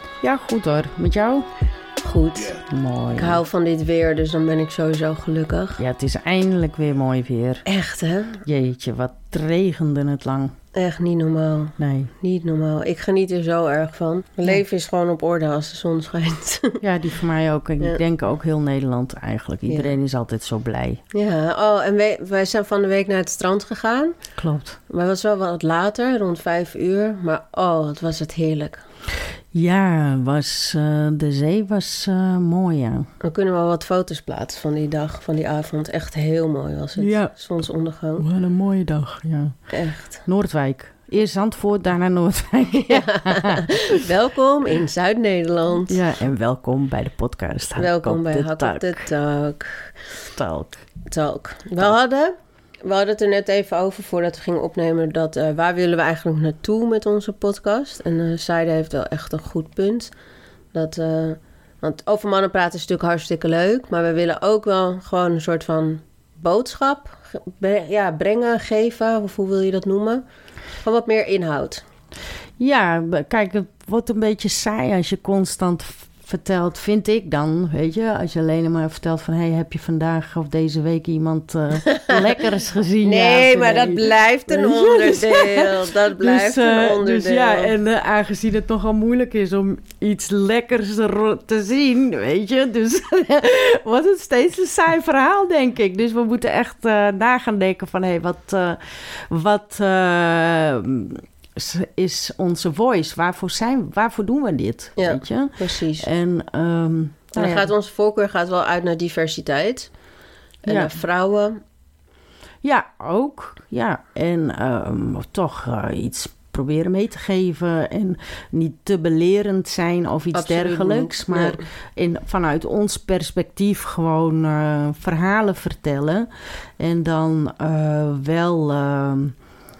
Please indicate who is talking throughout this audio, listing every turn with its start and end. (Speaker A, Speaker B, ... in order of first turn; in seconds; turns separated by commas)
Speaker A: 0.2-1.5, Speaker B: 2.0-2.6, Speaker A: 2.6-3.4, Speaker B: 3.2-5.8, Speaker A: 5.8-7.6, Speaker B: 7.6-8.4, Speaker A: 8.4-10.5, Speaker B: 10.7-16.8, Speaker A: 11.8-12.1, Speaker A: 16.8-21.0, Speaker B: 21.1-24.1, Speaker A: 24.4-24.8, Speaker B: 24.9-28.8, Speaker A: 29.5-33.1, Speaker B: 33.2-38.2, Speaker A: 37.0-37.3, Speaker A: 38.2-44.0, Speaker B: 39.7-40.2, Speaker B: 42.8-46.0, Speaker A: 45.9-49.0, Speaker B: 47.8-50.0, Speaker A: 50.3-50.9, Speaker B: 51.0-60.1, Speaker B: 60.7-70.2, Speaker B: 70.8-71.8, Speaker A: 72.6-107.7, Speaker B: 81.9-82.2, Speaker B: 83.0-87.7, Speaker B: 105.0-106.1, Speaker B: 107.3-109.9, Speaker B: 110.6-111.6, Speaker A: 110.7-110.9, Speaker A: 112.6-126.3, Speaker B: 120.3-121.6, Speaker A: 126.8-129.3